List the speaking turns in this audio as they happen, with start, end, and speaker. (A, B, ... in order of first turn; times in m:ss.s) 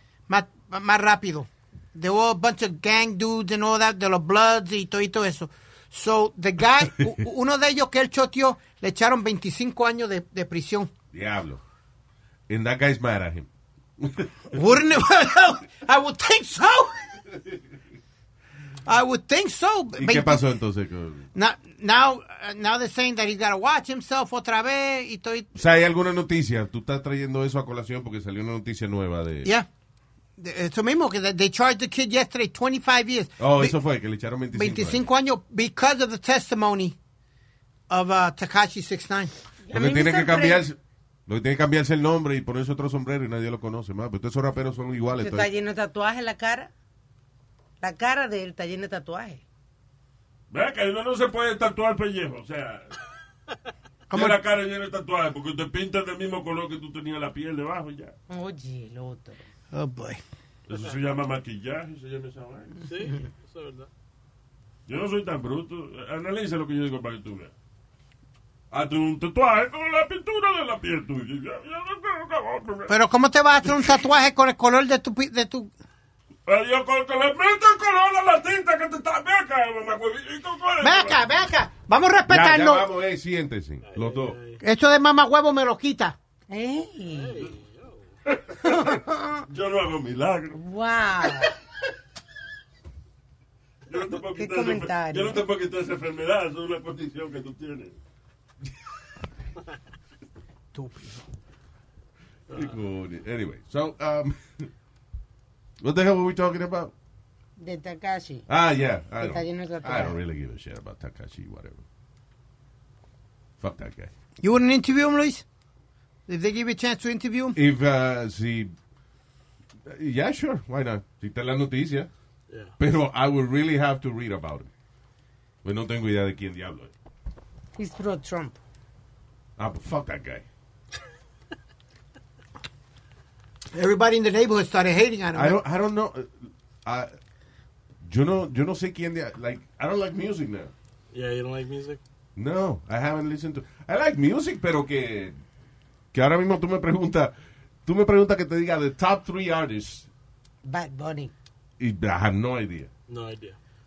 0:00.3-0:10.9 A
0:11.1-0:11.6 B
0:12.5-0:13.5 B
0:14.0-0:14.6 B
0:14.5-0:17.0 A
0:18.9-0:20.4 A
0:20.0-0:21.3 B
0:21.4-0:25.5 A
0:25.6-0:29.5 B
0:30.4-0:33.8 A
0:33.4-0:35.0 B
0:34.5-0:37.0 A
0:37.9-0:39.3 A
0:39.6-0:40.6 C
0:39.7-0:45.5 B
0:45.2-0:46.7 C
0:47.8-0:49.4 C
0:50.5-0:52.9 D
0:54.1-0:54.4 A
0:54.1-0:58.1 D
0:58.3-0:59.4 C
0:59.7-1:00.2 A
1:00.7-1:02.8 D
1:02.8-1:03.9 E
1:04.9-1:07.5 D
1:08.7-1:12.9 D
1:12.9-1:15.7 A
1:16.5-1:21.3 D
1:20.8-1:22.9 A
1:22.3-1:24.4 B
1:23.8-1:24.6 E
1:24.6-1:26.2 A
1:26.5-1:27.4 C
1:27.1-1:28.1 E
1:28.6-1:29.4 C
1:29.5-1:30.6 D
1:30.6-1:31.5 C
1:33.9-1:38.0 D
1:34.4-1:35.4 C
1:40.7-1:41.2 A
1:42.5-1:44.7 B
1:45.8-1:46.9 B
1:47.6-1:48.5 C
1:48.5-1:51.8 B
1:49.2-1:50.2 C
1:53.6-1:54.1 B
1:54.4-1:55.4 A
1:56.3-1:57.6 A
1:57.6-1:58.8 B
1:59.9-2:02.1 B
2:02.8-2:04.7 B
2:05.6-2:06.9 B
2:07.8-2:08.6 C
2:09.6-2:10.4 B
2:13.7-2:15.6 A
2:15.3-2:17.1 B
2:18.0-2:20.7 B
2:21.1-2:22.0 E
2:22.4-2:25.4 B
2:26.1-2:27.3 B
2:27.9-2:30.1 B
2:30.6-2:31.3 C
2:31.8-2:32.9 B
2:33.1-2:33.6 E